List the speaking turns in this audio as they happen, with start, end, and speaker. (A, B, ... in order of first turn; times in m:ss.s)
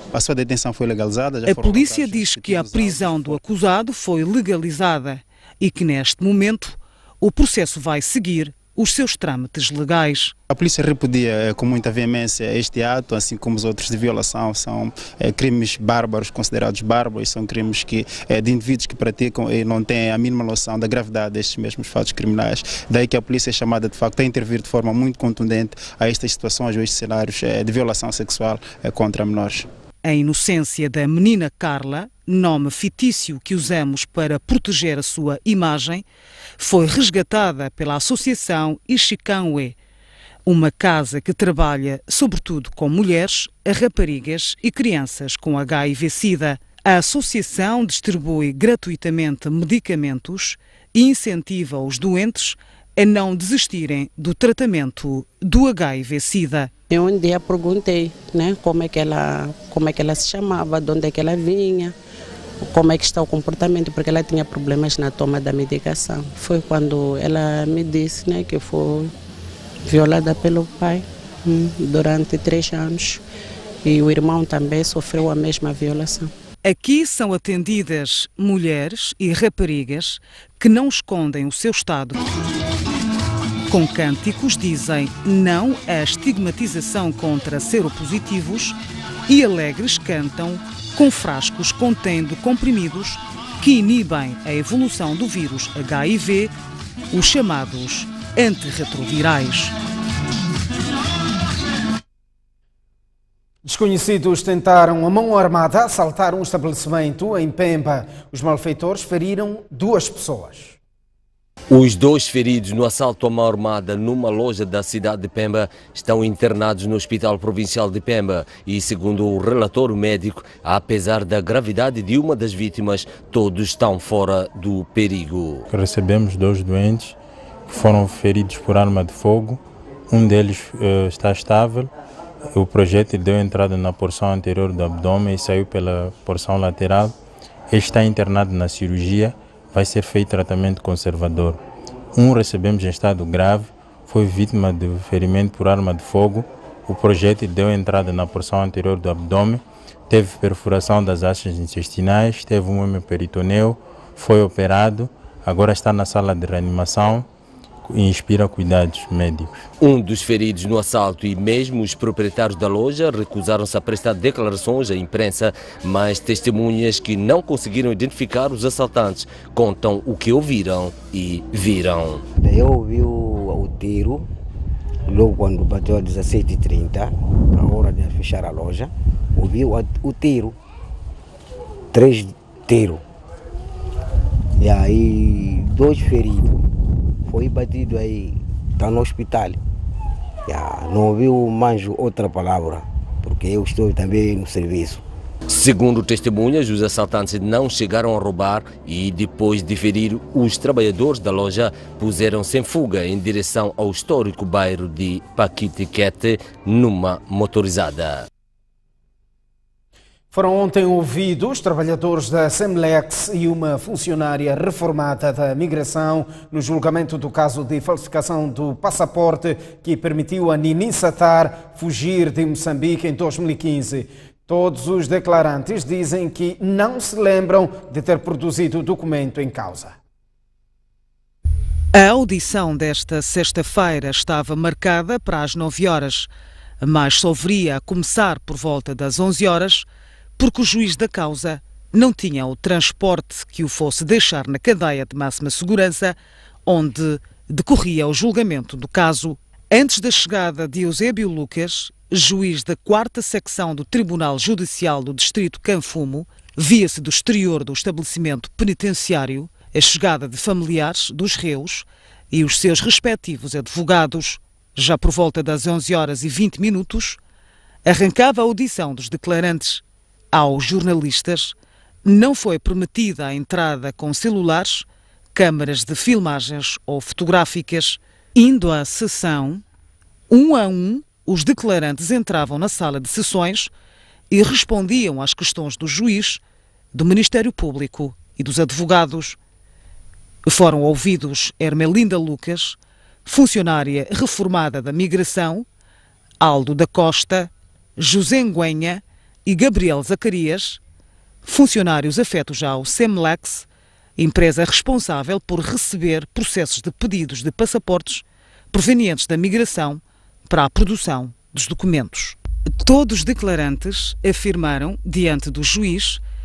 0:00.1-0:03.4 A
0:01.4-0:10.3 B
0:10.5-0:29.7 A
0:30.0-0:36.0 B
0:36.6-0:39.8 B
0:40.4-0:56.7 B
0:56.9-1:01.9 C
1:02.6-1:09.1 C
1:09.8-1:13.2 C
1:13.8-1:16.3 C
1:16.6-1:22.2 B
1:23.7-1:36.5 B
1:37.1-1:39.7 B
1:43.6-1:50.8 D
1:51.7-2:05.6 E
2:05.7-2:11.9 F
2:12.5-2:17.1 F
2:17.7-2:21.6 F
2:22.1-2:37.3 F
2:37.9-2:39.5 F
2:39.8-2:52.2 E
2:52.4-2:54.3 G
2:55.1-3:00.6 G
3:01.9-3:03.0 G
3:04.6-3:06.6 G
3:07.3-3:09.6 G
3:10.5-3:15.0 G
3:15.5-3:28.2 E
3:30.3-3:50.0 D
3:51.9-3:56.3 B
3:56.8-3:59.9 B
4:00.4-4:27.2 B
4:27.8-4:39.6 B
4:40.3-4:43.7 B
4:44.3-4:46.4 B
4:46.9-4:49.4 B
4:50.4-4:55.6 B
4:56.4-5:00.8 B
5:01.4-5:03.6 B
5:04.2-5:16.2 B